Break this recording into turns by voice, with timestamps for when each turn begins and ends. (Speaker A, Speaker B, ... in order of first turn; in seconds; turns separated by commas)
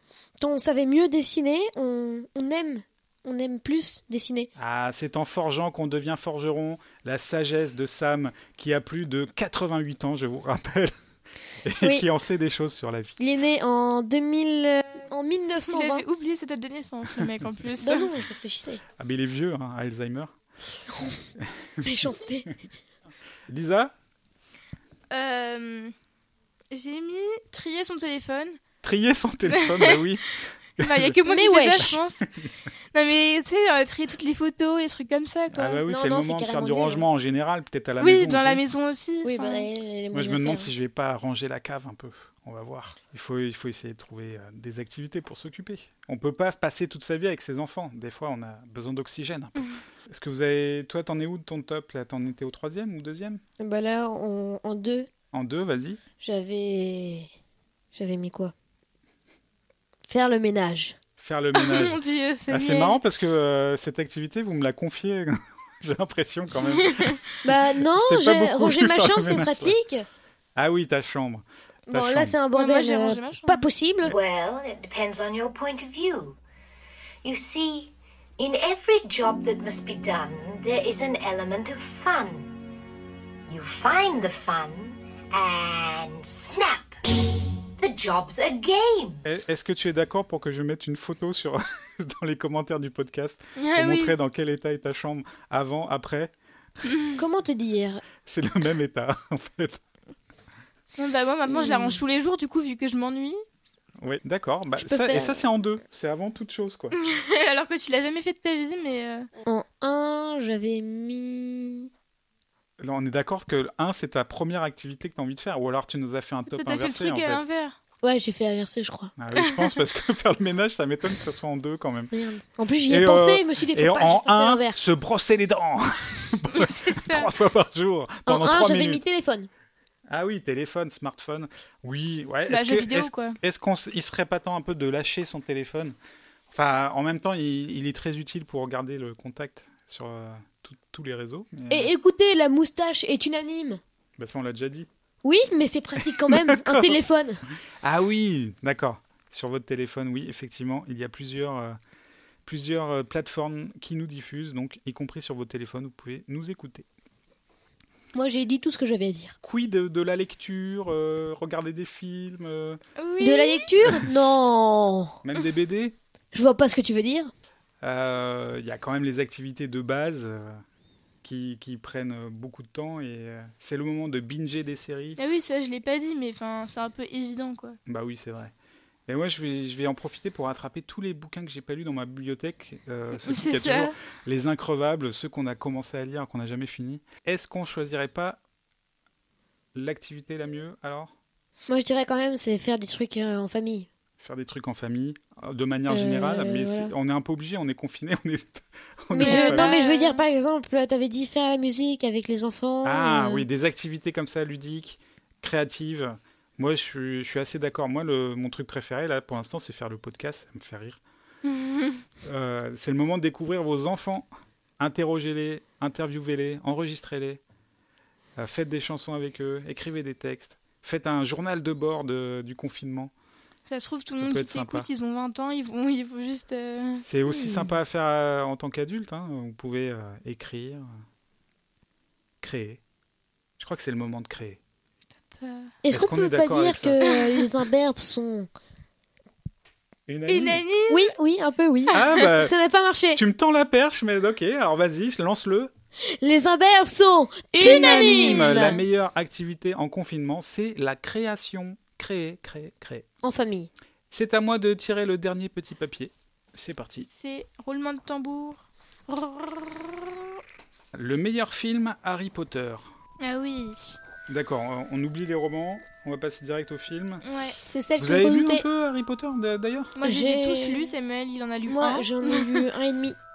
Speaker A: 0.4-4.5, Speaker B: 4.5-10.9, Speaker B: 11.6-13.2, Speaker A: 11.8-12.1, Speaker A: 13.2-16.0, Speaker C: 15.7-18.1, Speaker A: 17.8-18.8, Speaker B: 19.0-20.4, Speaker B: 21.4-22.1, Speaker A: 21.8-22.5, Speaker B: 23.5-23.9, Speaker C: 25.1-25.9, Speaker C: 26.7-28.6, Speaker B: 28.8-31.1, Speaker C: 29.5-30.0, Speaker C: 30.8-32.3, Speaker A: 31.3-32.0, Speaker C: 32.9-35.8, Speaker B: 35.5-38.6, Speaker A: 35.9-37.0, Speaker C: 38.0-39.7, Speaker A: 39.2-40.7, Speaker B: 40.1-53.4, Speaker A: 53.6-55.1, Speaker B: 55.3-56.0, Speaker A: 56.2-57.3, Speaker A: 57.9-58.5, Speaker A: 60.1-61.0, Speaker B: 61.2-67.2, Speaker C: 61.5-63.0, Speaker C: 66.8-67.2, Speaker A: 67.4-70.0, Speaker B: 67.8-69.8, Speaker B: 70.5-72.3, Speaker A: 71.9-74.1, Speaker C: 72.5-73.6, Speaker D: 74.1-76.4, Speaker D: 77.2-82.5, Speaker D: 83.5-87.0, Speaker D: 87.8-89.2, Speaker B: 89.2-96.3, Speaker C: 93.6-94.1, Speaker A: 97.2-98.0, Speaker B: 98.2-99.8, Speaker C: 101.0-103.4, Speaker A: 101.5-102.0, Speaker B: 104.0-107.0, Speaker A: 104.8-105.4, Speaker C: 107.0-109.3, Speaker A: 109.5-111.9, Speaker B: 112.8-117.4, Speaker C: 116.5-117.8, Speaker A: 118.0-119.1, Speaker B: 119.2-122.1, Speaker C: 119.3-119.8, Speaker A: 122.1-124.8, Speaker B: 122.9-129.0, Speaker C: 126.5-127.3, Speaker A: 128.2-129.5, Speaker B: 130.1-135.9, Speaker C: 132.5-133.4, Speaker B: 136.5-141.9, Speaker A: 141.7-143.8, Speaker B: 144.2-144.9, Speaker A: 145.2-147.4, Speaker B: 146.1-147.0, Speaker B: 147.8-151.8, Speaker B: 152.4-156.8, Speaker A: 158.1-159.4, Speaker B: 159.4-162.8, Speaker C: 163.0-163.7, Speaker A: 163.2-165.2, Speaker B: 165.2-165.9, Speaker A: 166.3-167.3, Speaker B: 167.8-170.6, Speaker B: 171.2-175.2, Speaker C: 175.2-177.8, Speaker B: 177.9-178.5, Speaker B: 179.1-188.4, Speaker C: 183.2-183.9, Speaker B: 189.7-191.1, Speaker A: 191.7-193.9, Speaker B: 194.2-199.8, Speaker A: 195.9-196.9, Speaker A: 199.1-203.4, Speaker C: 199.2-200.2, Speaker B: 202.8-211.0, Speaker C: 211.4-212.0, Speaker B: 212.2-214.3, Speaker B: 214.8-217.4, Speaker B: 218.4-223.1, Speaker C: 223.7-227.0, Speaker B: 224.1-224.9, Speaker B: 227.0-230.9, Speaker A: 227.3-227.7, Speaker B: 232.4-232.8, Speaker B: 233.6-234.6, Speaker C: 235.3-235.7, Speaker A: 235.8-238.5, Speaker B: 235.9-237.0, Speaker C: 237.1-237.4, Speaker B: 240.1-240.6, Speaker C: 240.3-241.1, Speaker A: 240.9-243.2, Speaker B: 241.9-242.5, Speaker C: 241.9-242.2, Speaker B: 243.1-245.7, Speaker A: 246.2-248.8, Speaker C: 247.6-248.6, Speaker B: 247.6-253.1, Speaker A: 253.2-253.7, Speaker B: 254.1-257.1, Speaker C: 257.1-258.6, Speaker B: 260.9-262.9, Speaker C: 263.2-264.0, Speaker B: 264.3-267.2, Speaker C: 267.2-267.6, Speaker A: 267.6-268.6, Speaker B: 268.0-269.9, Speaker C: 270.0-272.6, Speaker A: 270.0-270.9, Speaker A: 271.7-273.1